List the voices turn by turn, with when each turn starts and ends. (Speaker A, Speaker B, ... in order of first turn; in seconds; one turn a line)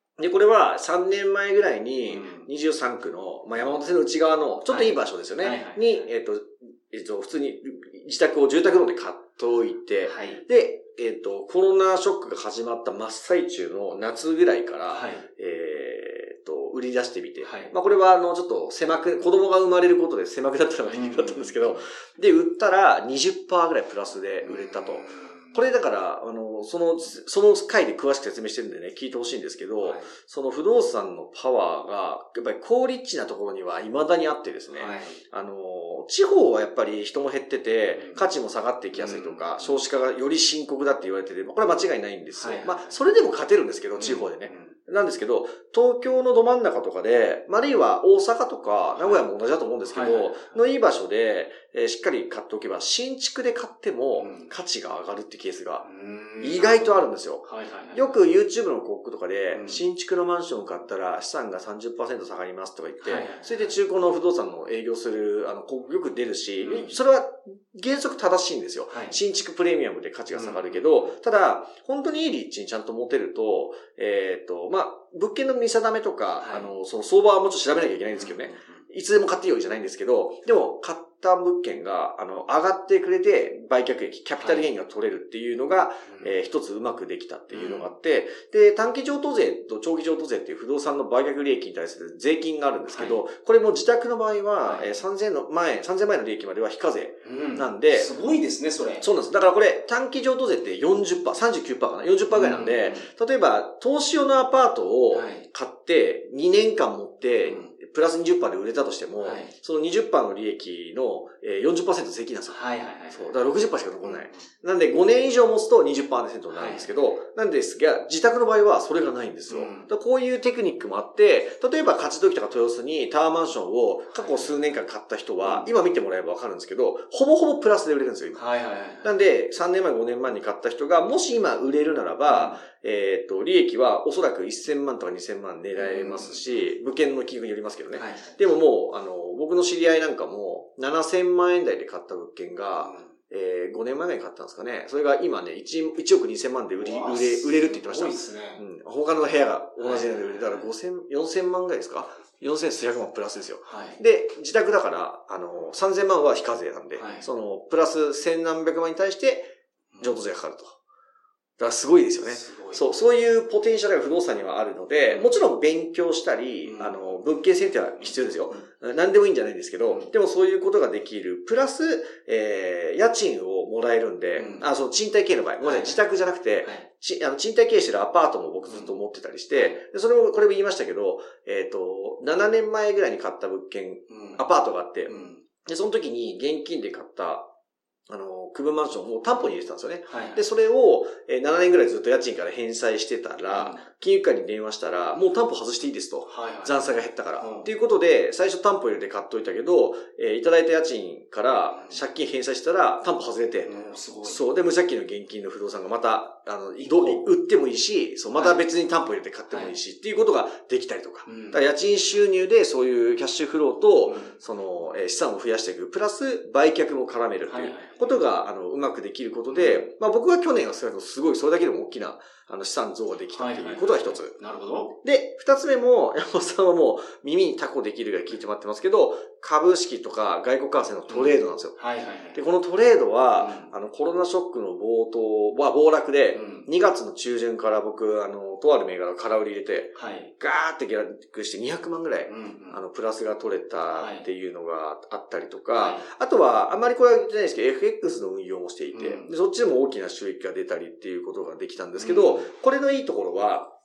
Speaker A: 0.2-55.9
Speaker B: 2.1-2.5
Speaker B: 4.7-6.0
Speaker B: 10.1-10.4
Speaker B: 14.9-15.2
Speaker B: 17.4-17.7
Speaker B: 20.9-21.8
Speaker B: 24.4-25.5
Speaker B: 29.8-30.1
Speaker B: 34.7-35.2
Speaker B: 37.9-38.2
Speaker B: 38.9-39.8
Speaker B: 42.3-42.9
Speaker B: 44.0-44.8
Speaker B: 49.0-49.3
Speaker B: 49.9-50.6
Speaker B: 54.1-54.5
Speaker B: 55.8-58.1
Speaker A: 56.4-98.1
Speaker B: 59.5-59.8
Speaker B: 63.0-63.7
Speaker B: 66.6-67.0
Speaker B: 68.9-69.2
Speaker B: 70.3-71.1
Speaker B: 76.4-76.7
Speaker B: 78.1-78.8
Speaker B: 84.3-84.7
Speaker B: 86.1-86.4
Speaker B: 87.5-87.9
Speaker B: 92.9-93.2
Speaker B: 94.6-95.0
Speaker B: 97.2-99.1
Speaker A: 99.0-112.6
Speaker B: 102.3-103.1
Speaker B: 105.1-105.5
Speaker B: 107.4-107.7
Speaker B: 109.2-109.5
Speaker B: 112.5-113.4
Speaker A: 113.1-128.4
Speaker B: 114.0-114.5
Speaker B: 116.5-116.9
Speaker B: 119.5-119.9
Speaker B: 124.1-124.8
Speaker B: 125.4-125.7
Speaker B: 128.3-129.2
Speaker A: 129.0-160.8
Speaker B: 132.2-132.6
Speaker B: 135.8-136.7
Speaker B: 137.9-138.5
Speaker B: 142.8-143.1
Speaker B: 146.8-148.6
Speaker B: 149.8-150.7
Speaker B: 153.6-154.0
Speaker B: 156.9-157.3
Speaker B: 159.9-160.2
Speaker A: 161.6-187.5
Speaker B: 162.2-162.8
Speaker B: 165.1-165.3
Speaker B: 166.6-167.1
Speaker B: 168.0-168.6
Speaker B: 169.8-170.1
Speaker B: 174.3-174.7
Speaker B: 175.6-176.0
Speaker B: 178.7-179.0
Speaker B: 179.5-179.8
Speaker B: 184.1-184.4
Speaker B: 185.1-185.4
Speaker A: 188.1-203.7
Speaker B: 190.1-190.4
Speaker B: 193.5-193.8
Speaker B: 196.3-197.7
Speaker B: 201.7-202.0
Speaker B: 203.6-204.4
Speaker A: 204.2-224.3
Speaker B: 206.8-207.2
Speaker B: 208.3-208.6
Speaker B: 209.5-209.8
Speaker B: 211.2-211.6
Speaker B: 214.0-214.3
Speaker B: 217.5-218.2
Speaker B: 219.5-219.9
Speaker B: 223.3-224.9
Speaker A: 225.0-231.8
Speaker B: 231.1-232.4
Speaker A: 232.3-253.7
Speaker B: 233.3-233.7
Speaker B: 236.3-236.7
Speaker B: 239.9-240.3
Speaker B: 242.3-242.8
Speaker B: 243.9-244.2
Speaker B: 245.7-246.0
Speaker B: 248.9-249.3
Speaker B: 251.9-252.5